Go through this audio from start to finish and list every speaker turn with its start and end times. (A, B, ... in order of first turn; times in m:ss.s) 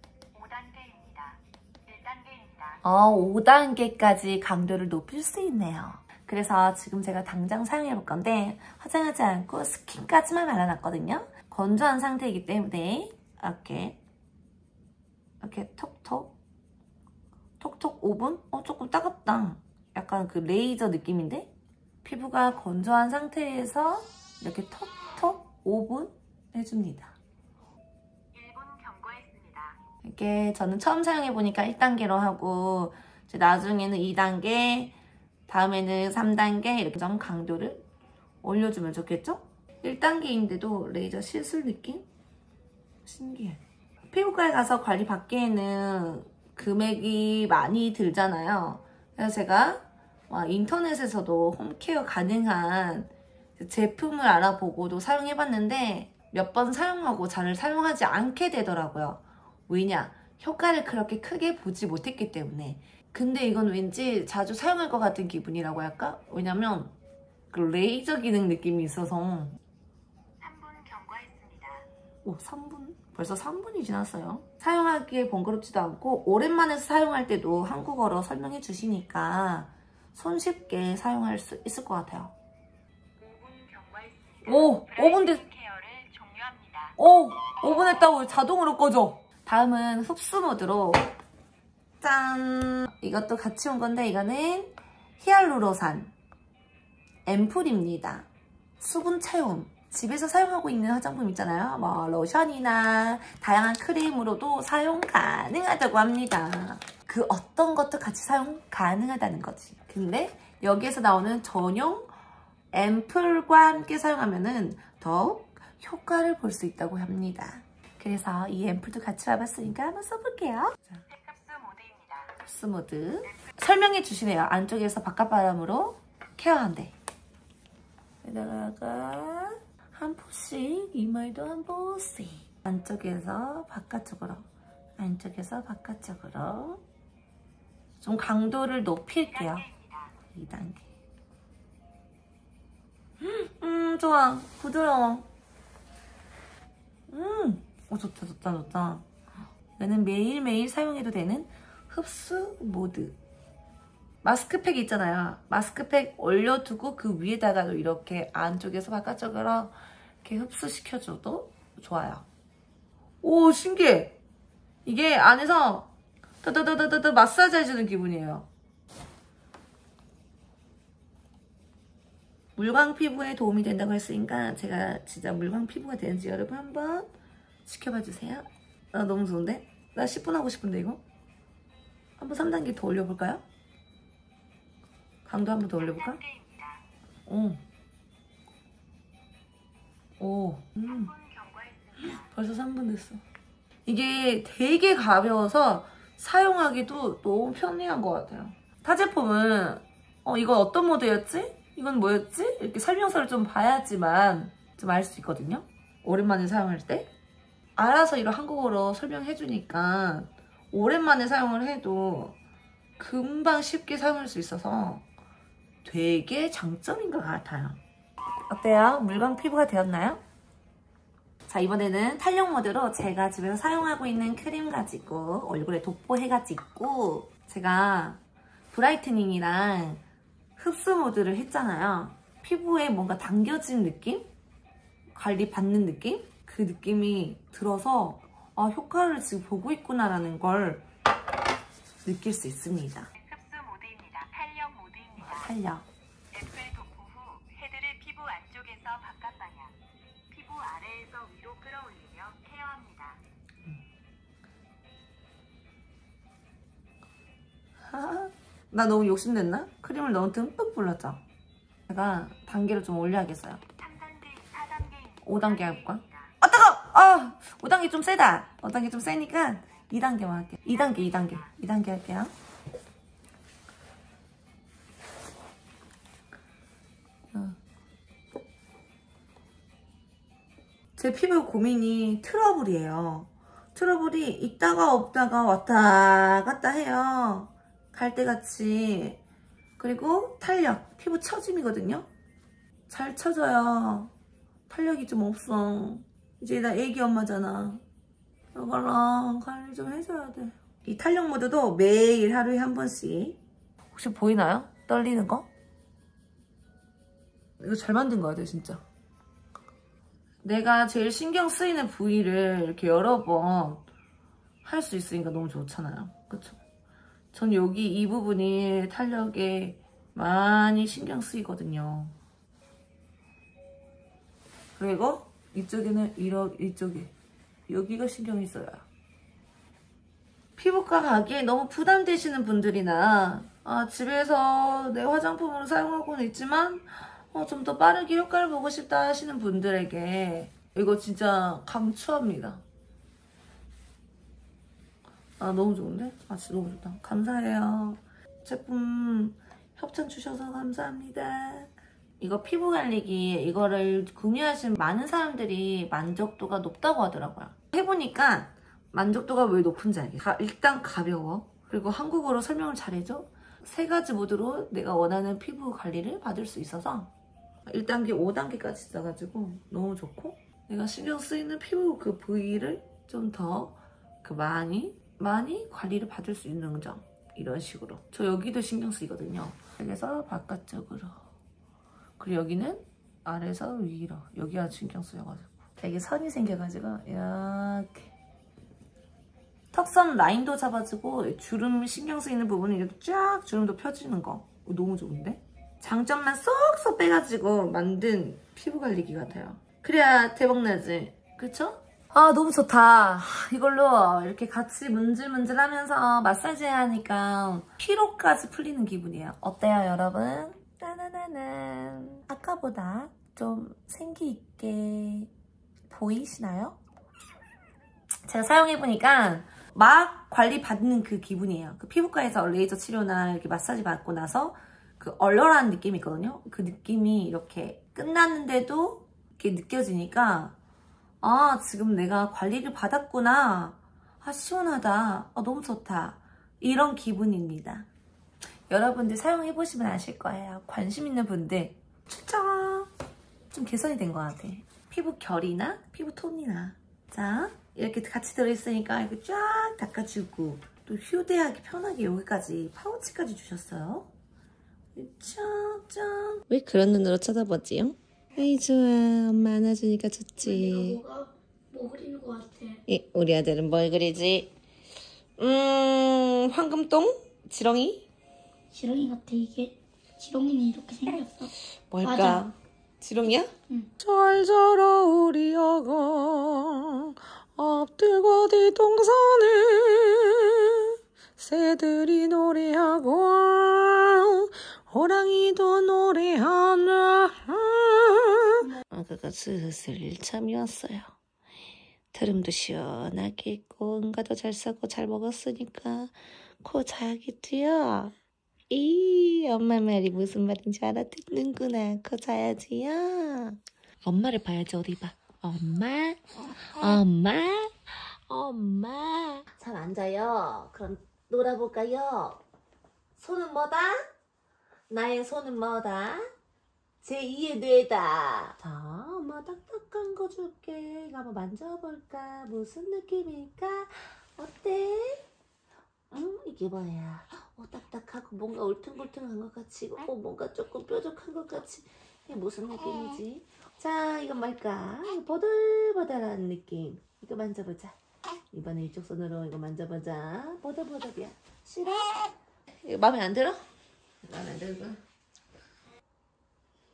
0:00.3-0:02.8 A
0:02.8-0:14.0 B
0:15.4-0:16.4 B
0:17.6-0:21.5 B
0:22.0-0:27.1 B
0:28.3-0:29.8 A
0:30.0-0:35.0 B
0:35.5-0:37.8 B
0:38.4-0:42.1 B
0:43.1-1:07.0 B
1:07.5-1:09.6 B
1:10.4-1:11.9 A
1:12.2-1:22.3 B
1:23.2-1:27.0 A
1:24.4-1:25.4 B
1:27.0-1:31.1 B
1:32.0-1:36.1 B
1:37.3-1:38.3 B
1:38.8-1:52.1 B
1:52.7-2:01.0 B
2:01.1-2:02.3 A
2:02.4-2:07.0 B
2:08.2-2:14.5 B
2:15.0-2:16.8 B
2:18.0-2:19.7 B
2:19.3-2:20.1 A
2:20.3-2:20.9 B
2:23.2-2:25.3 B
2:27.1-2:29.1 B
2:29.8-2:33.2 B
2:34.2-2:42.3 B
2:43.2-2:44.2 B
2:44.8-2:45.9 B
2:46.4-2:48.5 B
2:52.6-2:57.1 B
2:57.6-3:01.0 B
3:02.2-3:03.4 B
3:05.2-3:06.2 B
3:05.8-3:06.8 A
3:07.3-3:07.6 B
3:10.2-3:11.1 B
3:10.9-3:12.3 A
3:12.0-3:13.2 B
3:13.9-3:27.1 B
3:27.8-3:32.4 B
3:33.0-3:35.1 B
3:35.8-3:37.8 B
3:38.5-3:40.2 B
3:41.5-3:48.2 B
3:48.7-3:50.0 B
3:50.6-3:54.3 B
3:55.1-4:00.8 B
4:02.0-4:03.1 B
4:03.2-4:05.5 A
4:05.2-4:05.9 B
4:06.3-4:09.7 A
4:10.3-4:13.2 A
4:17.8-4:21.2 B
4:21.9-4:23.6 B
4:23.8-4:26.3 A
4:25.2-4:32.3 B
4:30.7-4:31.5 A
4:41.0-4:49.2 B
4:49.8-4:52.1 B
4:52.9-4:54.1 B
4:54.7-4:57.8 B
4:58.5-5:03.4 B
5:03.9-5:05.5 B
5:07.6-5:08.8 B
5:10.4-5:13.9 B
5:14.6-5:16.6 B
5:17.3-5:22.2 B
5:24.8-5:27.1 B
5:27.7-5:28.9 B
5:30.6-5:42.6 B
5:45.4-6:07.1 B
6:07.7-6:21.2 B
6:22.2-6:28.1 B
6:29.7-6:55.3 B
6:55.9-6:56.8 B
6:58.3-7:10.6 B
7:11.2-7:17.9 B
7:18.7-7:22.9 B
7:23.5-7:34.1 B
7:35.0-7:41.0 B
7:40.4-7:42.8 C
7:42.9-7:44.5 B
7:45.4-7:48.1 B
7:48.7-7:51.5 C
7:51.9-8:11.1 B
7:52.0-7:52.4 C
8:12.1-8:18.1 B
8:18.7-8:26.2 B
8:26.8-8:32.4 B
8:33.2-8:34.0 B
8:34.9-8:36.3 B
8:37.0-8:45.3 B
8:46.1-8:58.0 B
8:58.5-9:02.2 B
9:02.8-9:03.6 B
9:04.2-9:05.0 B